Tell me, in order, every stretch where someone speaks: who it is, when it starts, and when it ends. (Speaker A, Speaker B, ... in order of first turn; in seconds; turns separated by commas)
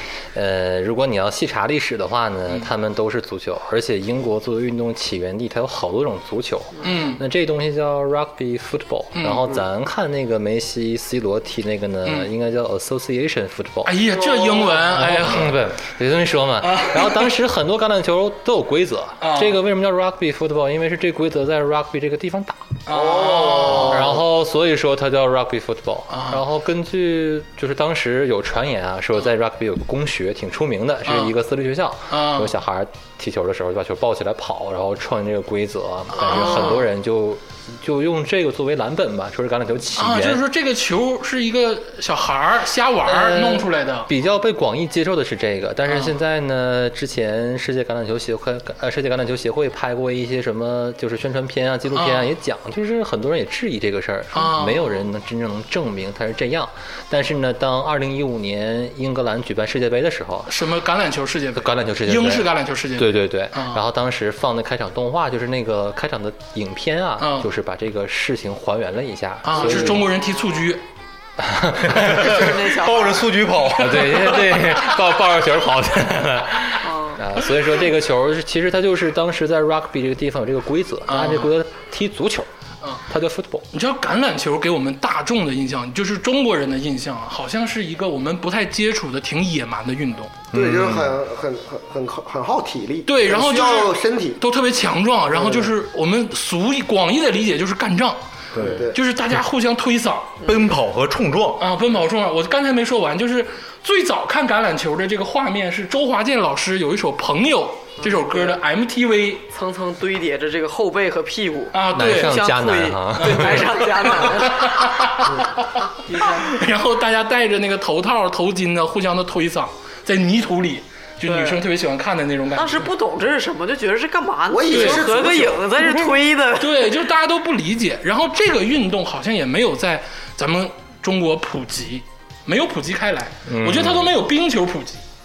Speaker A: 0.3-14.1, Speaker B: 6.8-7.2, Speaker B: 9.1-9.5, Speaker B: 13.8-15.5, Speaker C: 14.2-14.8, Speaker A: 14.9-22.8, Speaker B: 16.6-17.4, Speaker B: 19.2-19.6, Speaker B: 22.9-24.2, Speaker C: 22.9-24.1, Speaker A: 23.6-40.4, Speaker B: 26.1-26.4, Speaker B: 31.1-31.3, Speaker B: 32.1-32.5, Speaker B: 36.1-36.8, Speaker B: 40.0-44.1, Speaker A: 43.0-60.5, Speaker B: 45.9-46.1, Speaker B: 51.9-52.3, Speaker B: 54.3-54.9, Speaker B: 60.5-63.8, Speaker A: 61.5-70.1, Speaker B: 67.2-67.5, Speaker B: 69.4-70.8, Speaker A: 71.4-72.7, Speaker D: 72.0-73.4, Speaker E: 72.0-74.3, Speaker A: 73.7-82.5, Speaker B: 73.9-74.8, Speaker D: 76.8-77.2, Speaker B: 81.1-81.5, Speaker A: 83.1-83.7, Speaker B: 83.7-90.3, Speaker E: 90.5-91.2, Speaker C: 90.5-94.4, Speaker B: 93.0-98.2, Speaker C: 95.3-95.7, Speaker E: 98.5-98.8, Speaker C: 98.6-99.0, Speaker B: 98.9-100.3, Speaker D: 100.4-100.7, Speaker E: 100.4-101.6, Speaker B: 101.6-109.4, Speaker D: 108.0-108.6, Speaker D: 109.5-114.9, Speaker B: 111.7-112.5, Speaker A: 111.9-113.8, Speaker B: 113.1-122.8, Speaker D: 116.0-116.6, Speaker D: 121.3-121.6, Speaker D: 122.5-126.8, Speaker C: 124.5-125.8, Speaker B: 124.7-125.2, Speaker B: 126.5-135.0, Speaker E: 133.5-134.0